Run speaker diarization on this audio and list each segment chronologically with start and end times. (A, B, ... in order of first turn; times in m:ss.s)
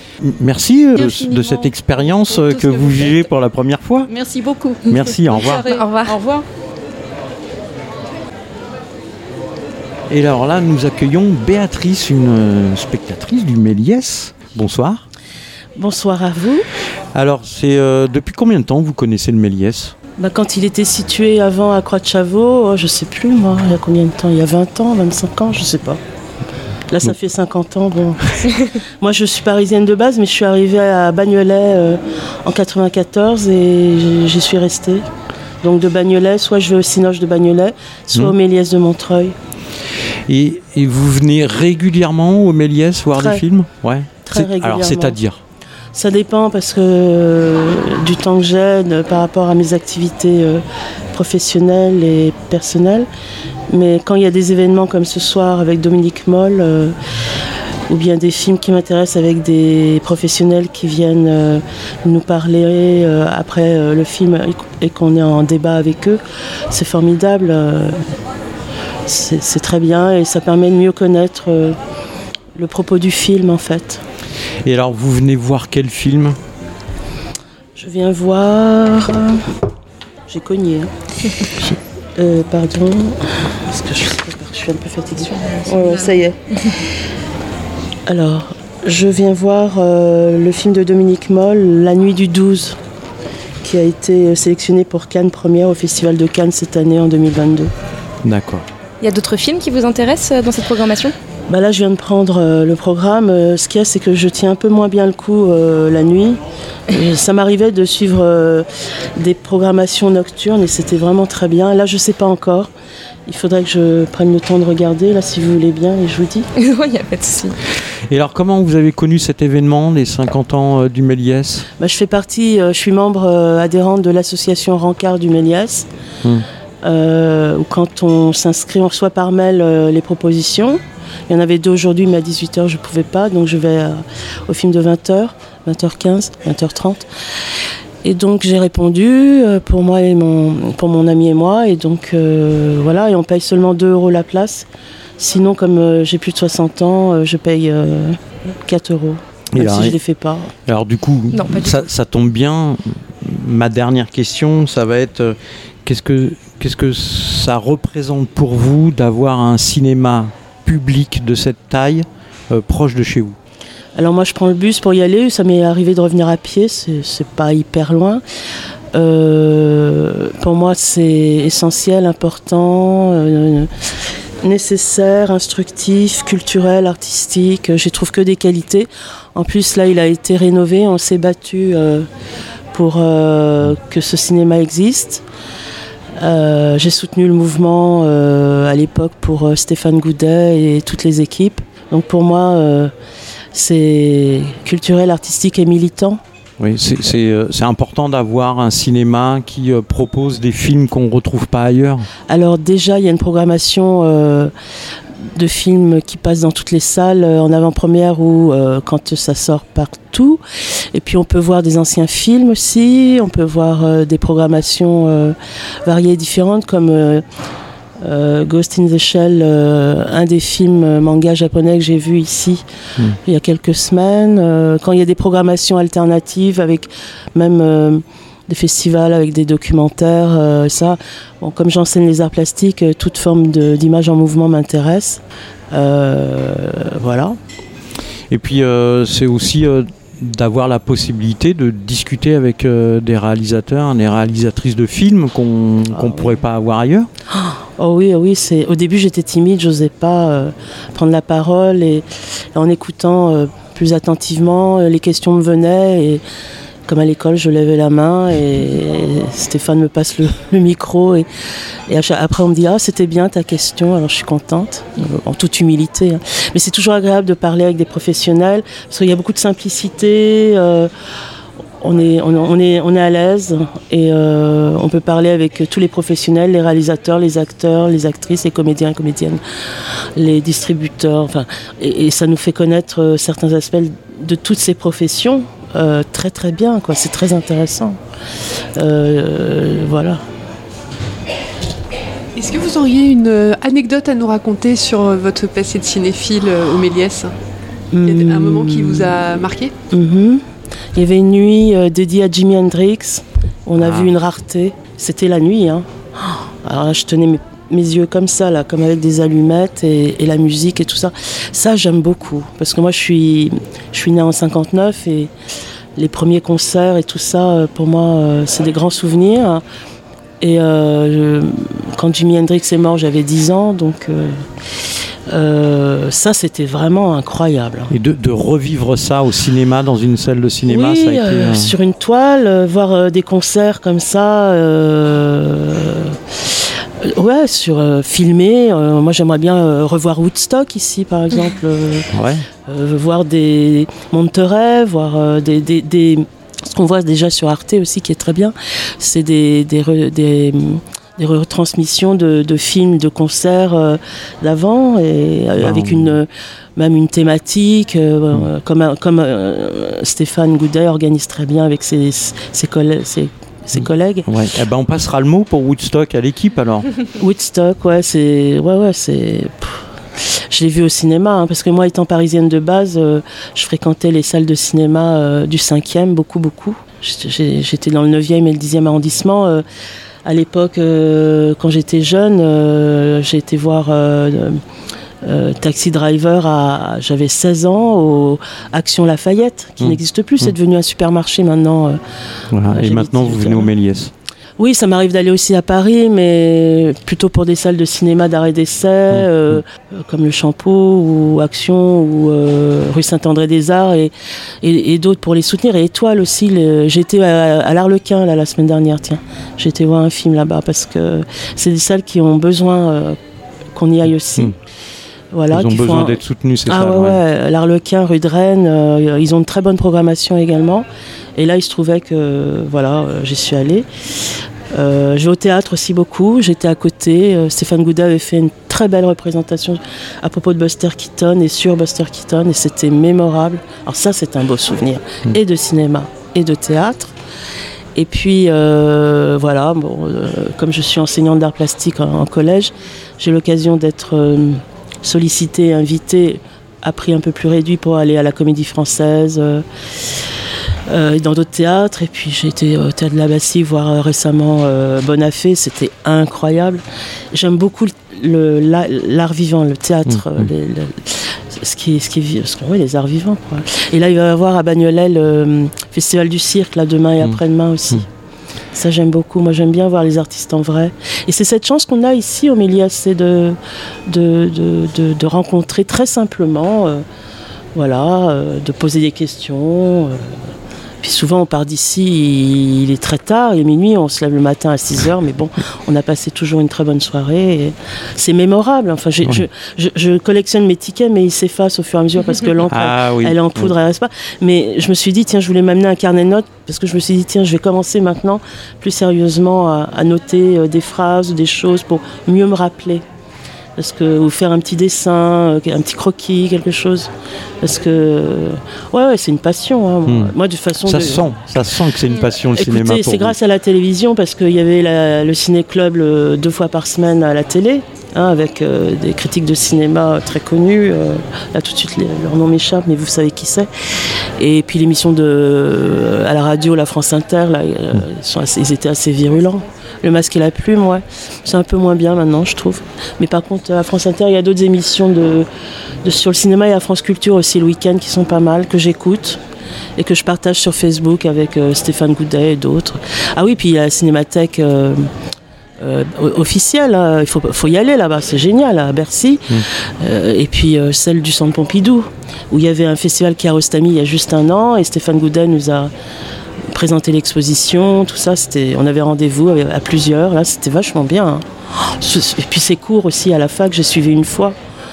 0:00.2-0:04.1 A
0:01.1-0:01.5 B
0:02.4-0:03.1 B
0:04.1-0:06.4 B
0:04.9-0:05.7 A
0:05.7-0:06.2 C
0:10.1-0:15.0 A
0:15.8-0:16.7 D
0:17.1-0:20.0 A
0:20.2-0:26.0 D
0:26.9-0:28.2 D
0:29.0-0:35.0 D
0:35.6-0:39.4 D
0:40.3-0:45.4 A
0:43.2-0:43.4 D
0:44.2-0:45.2 D
0:45.9-0:50.6 D
0:51.1-0:53.1 D
0:53.7-0:57.0 D
0:57.9-1:06.2 D
1:06.7-1:08.0 D
1:09.1-1:11.8 D
1:12.6-1:14.0 D
1:14.6-1:16.4 A
1:17.8-1:19.5 D
1:20.3-1:20.9 D
1:22.2-1:26.4 D
1:28.1-1:32.8 D
1:33.6-1:37.7 D
1:38.2-1:38.7 A
1:39.0-1:41.2 C
1:41.5-1:48.7 D
1:49.2-1:52.7 D
1:53.3-1:56.5 D
1:56.6-1:57.6 C
1:58.1-2:01.7 A
2:01.8-2:05.9 D
2:06.8-2:17.1 D
2:18.0-2:24.7 D
2:25.2-2:30.5 D
2:29.5-2:30.0 A
2:30.7-2:43.4 A
2:31.3-2:31.8 C
2:44.0-2:48.2 D
2:48.9-2:53.7 D
2:54.4-3:02.1 D
3:02.7-3:05.2 D
3:06.2-3:12.9 D
3:13.5-3:16.2 D
3:16.6-3:22.1 A
3:22.3-3:24.5 D
3:25.4-3:30.4 D
3:30.9-3:37.2 D
3:38.0-3:42.6 D
3:43.2-3:55.2 D
3:55.7-3:57.4 D
3:58.3-4:07.1 A
4:05.9-4:06.4 D
4:07.3-4:16.2 D
4:16.9-4:21.3 D
4:21.9-4:30.9 D
4:31.8-4:39.4 D
4:40.2-4:48.0 D
4:48.8-4:50.2 D
4:52.4-4:57.3 E
4:57.9-4:59.2 D
4:58.0-4:59.7 E
4:59.9-5:00.4 D
5:01.0-5:15.3 D
5:03.8-5:04.1 A
5:16.0-5:19.6 D
5:20.4-5:24.4 D
5:25.3-5:27.9 D
5:27.9-5:31.8 A
5:30.7-5:36.2 D
5:37.0-5:42.1 D
5:42.1-5:42.5 A
5:42.7-6:04.3 D
5:55.6-5:56.2 A
6:03.7-6:06.9 A
6:07.2-6:09.8 D
6:10.5-6:19.6 D
6:20.3-6:24.6 D
6:25.2-6:32.0 D
6:29.8-6:30.6 A
6:32.5-6:34.1 A
6:32.7-6:33.7 D
6:34.6-6:44.1 D
6:39.1-6:39.6 A
6:44.6-6:53.2 D
6:53.8-6:54.5 D
6:55.3-7:00.9 D
6:55.5-6:57.2 A
7:01.4-7:03.9 D
7:04.7-7:17.1 D
7:18.0-7:29.6 D
7:30.9-7:36.8 D
7:37.3-7:48.1 D
7:40.1-7:40.5 A
7:47.2-7:48.0 A
7:48.7-7:57.0 D
7:57.8-8:00.4 D
8:01.0-8:23.0 D
8:12.7-8:13.8 A
8:23.8-8:27.1 D
8:27.6-8:31.4 D
8:30.1-8:33.4 A
8:32.4-8:43.7 D
8:44.4-8:55.5 D
8:56.0-8:59.4 D
9:00.0-9:05.1 D
9:05.8-9:15.9 D
9:16.7-9:24.6 D